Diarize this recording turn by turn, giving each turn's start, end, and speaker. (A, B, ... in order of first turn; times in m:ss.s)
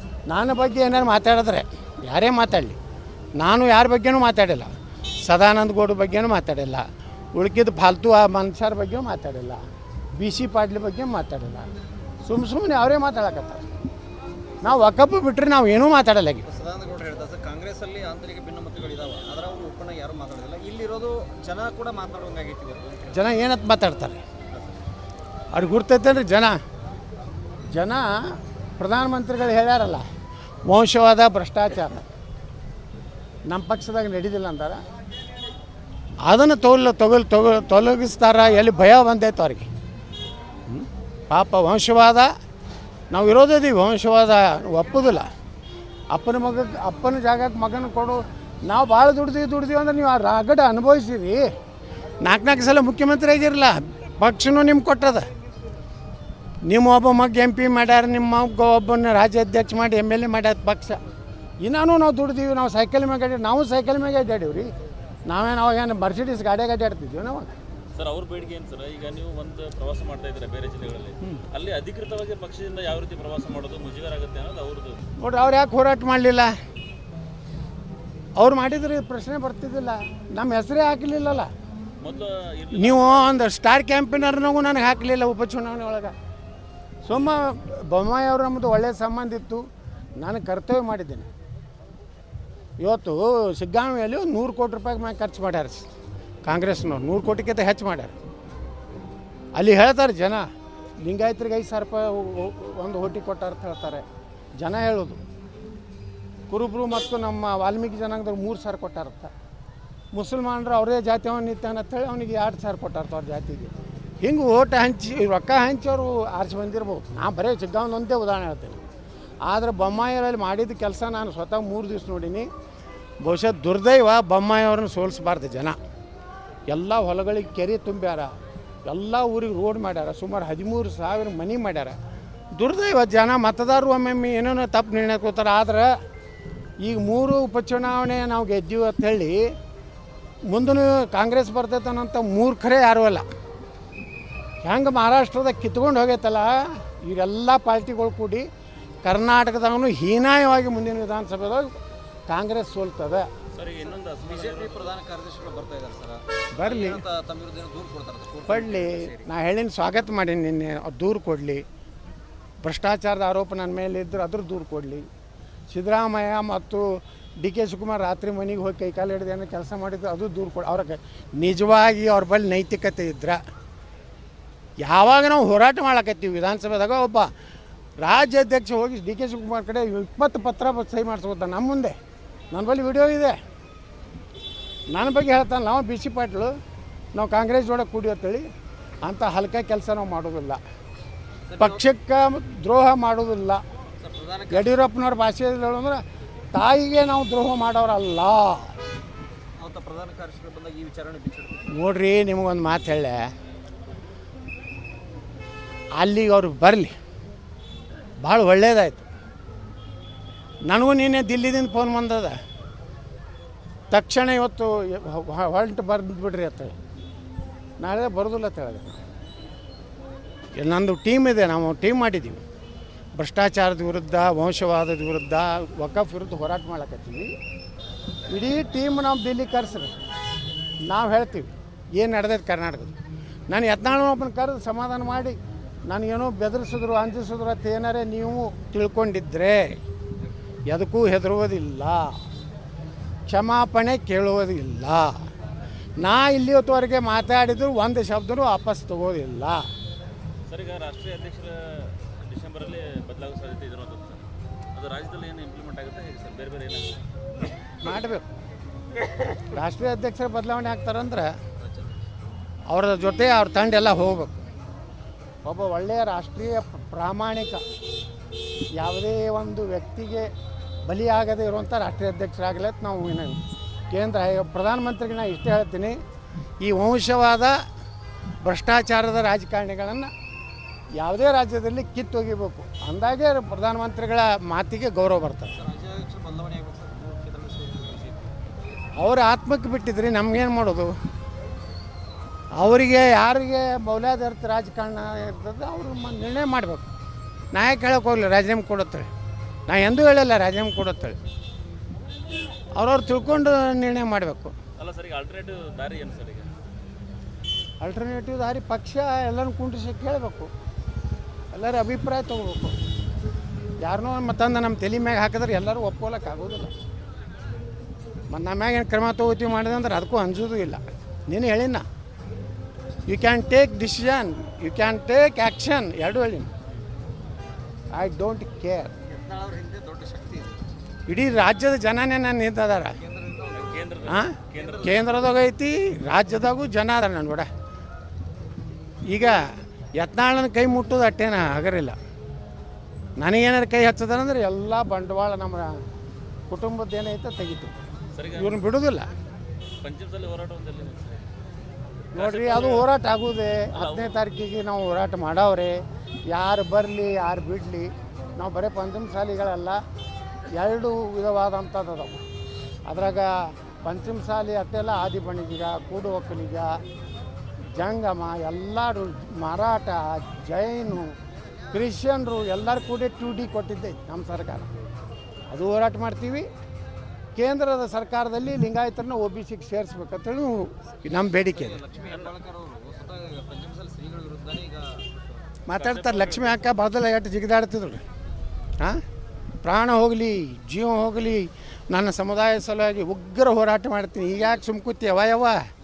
0:00.3-0:02.8 A
0:03.4-0:04.7 A
0:05.2-0:06.8 A
0:07.3-0:09.6 A
0:10.2-0:11.7 A
0:12.2-0:13.6 A
0:14.6-0:16.4 A
0:16.4-0:23.3 B
0:23.1-0:24.2 A
0:24.5-0:24.8 B
0:25.5-0:26.6 A
0:27.7-0:28.1 A
0:28.8-0:30.0 A
0:30.7-0:32.0 A
0:33.5-0:34.8 A
0:36.2-0:39.7 A
0:40.7-0:42.3 A
0:43.1-0:45.3 A
0:46.1-0:51.4 A
0:52.2-0:55.3 A
0:56.6-1:01.0 A
1:01.6-1:04.7 A
1:05.3-1:07.5 A
1:07.9-1:15.0 C
1:15.2-1:16.5 A
1:18.4-1:21.5 A
1:22.0-1:23.4 C
1:22.7-1:26.1 A
1:27.0-1:29.6 A
1:30.2-1:31.3 A
1:32.8-1:35.9 A
1:36.4-1:38.1 A
1:39.6-1:40.4 A
1:41.0-1:44.0 A
1:44.6-1:45.2 A
1:46.5-1:49.3 A
1:50.1-1:53.7 A
1:54.2-1:58.8 A
1:59.4-2:02.5 A
2:03.2-2:05.7 A
2:06.7-2:08.3 A
2:08.8-2:12.0 A
2:12.6-2:15.9 A
2:16.8-2:19.5 A
2:20.5-2:23.2 A
2:24.6-2:28.4 A
2:29.0-2:31.7 A
2:32.3-2:33.3 A
2:33.5-2:35.0 C
2:33.9-2:39.3 B
2:36.5-2:37.0 A
2:38.5-2:41.6 A
2:42.6-2:45.0 A
2:45.7-2:53.4 A
2:54.8-2:57.3 A
2:58.0-3:02.0 A
3:02.5-3:03.4 A
3:04.9-3:06.5 A
3:07.1-3:08.4 A
3:09.0-3:10.6 A
3:11.5-3:11.8 B
3:11.6-3:13.6 A
3:14.0-3:14.8 B
3:14.5-3:16.0 A
3:16.5-3:18.7 A
3:19.6-3:21.7 B
3:21.7-3:23.2 A
3:26.0-3:26.9 A
3:28.2-3:29.0 A
3:30.7-3:32.4 A
3:33.9-3:36.7 A
3:37.8-3:39.0 A
3:40.6-3:42.4 A
3:43.2-3:47.3 A
3:48.3-3:49.9 A
3:50.9-3:52.9 A
3:53.5-3:55.4 A
3:55.9-3:59.8 A
4:00.7-4:02.2 A
4:03.3-4:05.3 A
4:06.0-4:09.6 A
4:10.5-4:17.0 C
4:17.8-4:18.2 A
4:19.4-4:21.3 A
4:21.6-4:22.1 B
4:22.7-4:24.4 A
4:25.4-4:27.6 A
4:28.8-4:30.3 A
4:30.9-4:36.0 A
4:36.6-4:37.6 A
4:38.4-4:40.1 A
4:41.0-4:45.6 A
4:45.5-4:48.6 B
4:49.0-4:50.9 A
4:52.6-4:56.8 A
4:57.5-4:59.1 A
4:59.7-5:01.2 A
5:02.8-5:04.5 A
5:04.8-5:06.5 C
5:07.8-5:10.5 A
5:11.5-5:12.8 A
5:13.8-5:16.7 A
5:18.3-5:21.8 A
5:23.1-5:26.5 A
5:27.9-5:28.9 A
5:29.0-5:30.7 B
5:31.1-5:33.0 A
5:32.9-5:35.4 B
5:33.5-5:35.1 C
5:34.1-5:37.5 A
5:39.1-5:42.0 A
5:43.2-5:45.7 A
5:46.5-5:47.7 A
5:48.1-5:48.7 C
5:48.3-5:49.1 A
5:49.8-5:51.2 C
5:52.1-5:52.9 C
5:52.1-5:59.8 A
5:53.7-5:54.2 C
6:00.5-6:02.2 A
6:02.9-6:06.8 A
6:07.8-6:11.1 A
6:11.7-6:14.7 A
6:15.5-6:16.5 A
6:17.4-6:21.8 A
6:21.0-6:25.6 B
6:22.0-6:22.3 C
6:25.7-6:28.0 A
6:25.7-6:26.7 C
6:29.6-6:35.6 A